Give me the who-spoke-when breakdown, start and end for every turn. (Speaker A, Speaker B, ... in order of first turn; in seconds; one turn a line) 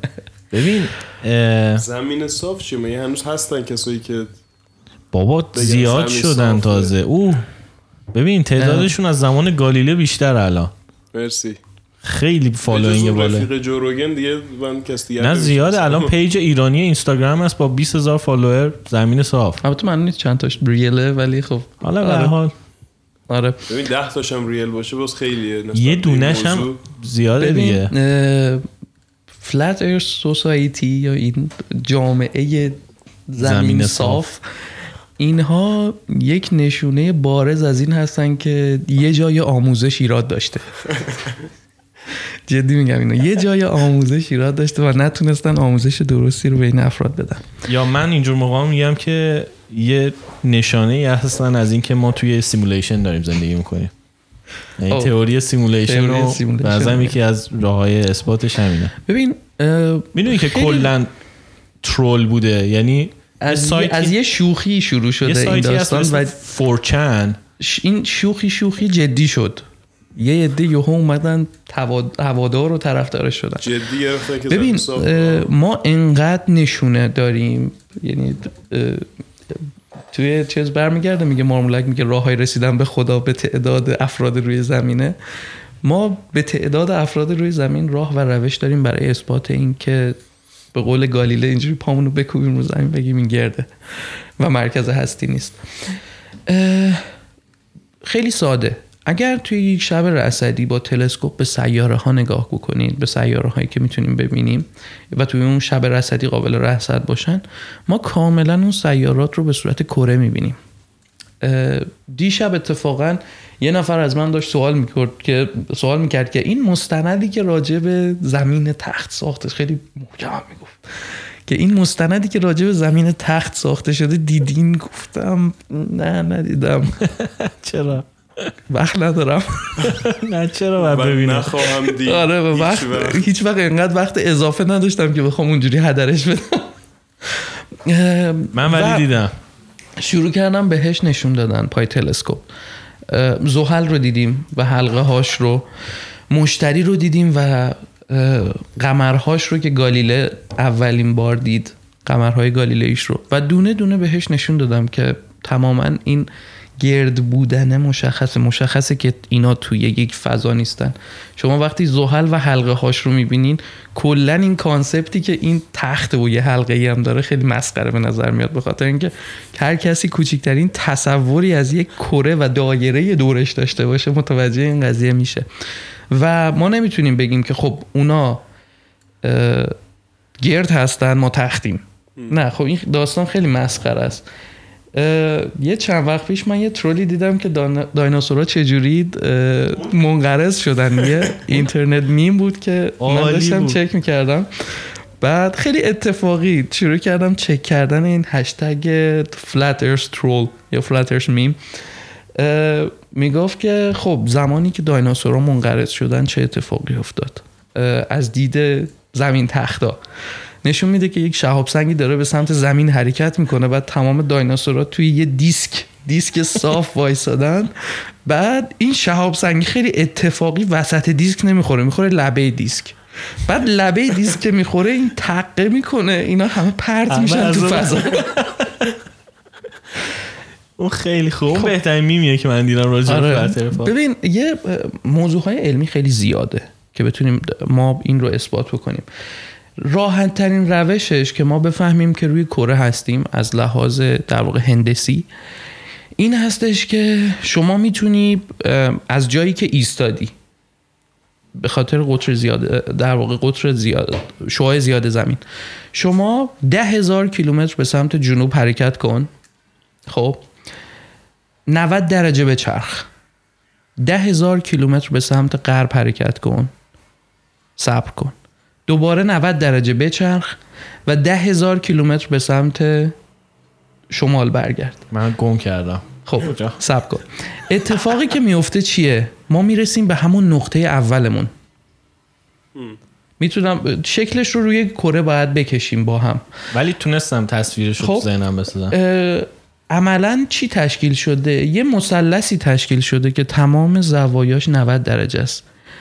Speaker A: 0.5-1.8
Speaker B: 1.8-4.4
Speaker A: 5.1-7.5
Speaker B: 5.5-7.0
Speaker A: 8.1-10.7
Speaker C: 8.6-8.9
Speaker B: 11.1-11.6
Speaker A: 12.0-13.5
Speaker B: 12.7-16.1
Speaker A: 15.2-19.6
Speaker C: 19.6-22.4
Speaker A: 21.8-22.5
Speaker C: 23.3-23.6
Speaker B: 23.7-26.8
Speaker A: 25.7-27.9
Speaker C: 27.4-28.6
Speaker C: 29.4-34.4
Speaker A: 33.4-34.2
Speaker C: 35.2-41.0
Speaker C: 42.5-47.5
Speaker A: 47.7-53.9
Speaker A: 54.8-58.9
Speaker C: 55.9-57.2
Speaker C: 59.0-60.9
Speaker A: 60.1-61.1
Speaker A: 61.8-64.2
Speaker C: 63.4-66.3
Speaker A: 65.2-67.4
Speaker C: 67.6-69.6
Speaker C: 70.2-73.8
Speaker B: 73.6-75.5
Speaker C: 74.5-85.2
Speaker C: 85.8-90.2
Speaker C: 90.7-93.7
Speaker C: 94.4-95.6
Speaker C: 96.5-97.0
Speaker C: 98.0-110.6
Speaker C: 111.4-120.8
Speaker C: 121.5-127.0
Speaker A: 127.0-128.1
Speaker C: 128.7-129.9
Speaker A: 129.8-131.5
Speaker B: 130.8-133.3
Speaker C: 131.7-136.7
Speaker C: 137.2-139.1
Speaker A: 138.5-139.3
Speaker C: 140.0-142.5
Speaker C: 143.1-145.7
Speaker C: 146.3-175.4
Speaker C: 176.1-178.4
Speaker C: 179.2-179.7
Speaker C: 180.4-184.2
Speaker C: 184.9-201.6
Speaker A: 193.0-193.8
Speaker C: 202.3-210.0
Speaker C: 210.6-217.7
Speaker C: 218.2-228.3
Speaker A: 227.1-228.9
Speaker A: 230.8-233.9
Speaker C: 233.1-239.1
Speaker C: 239.8-245.3
Speaker C: 246.2-250.3
Speaker C: 251.6-255.4
Speaker C: 255.9-259.3
Speaker C: 260.1-260.4
Speaker C: 261.7-263.1
Speaker C: 264.0-266.7
Speaker C: 267.8-268.3
Speaker C: 268.9-273.1
Speaker C: 274.1-275.0
Speaker A: 275.1-276.8
Speaker C: 276.2-281.5
Speaker C: 283.4-286.4
Speaker A: 286.7-289.0
Speaker C: 288.0-288.3
Speaker C: 288.9-295.6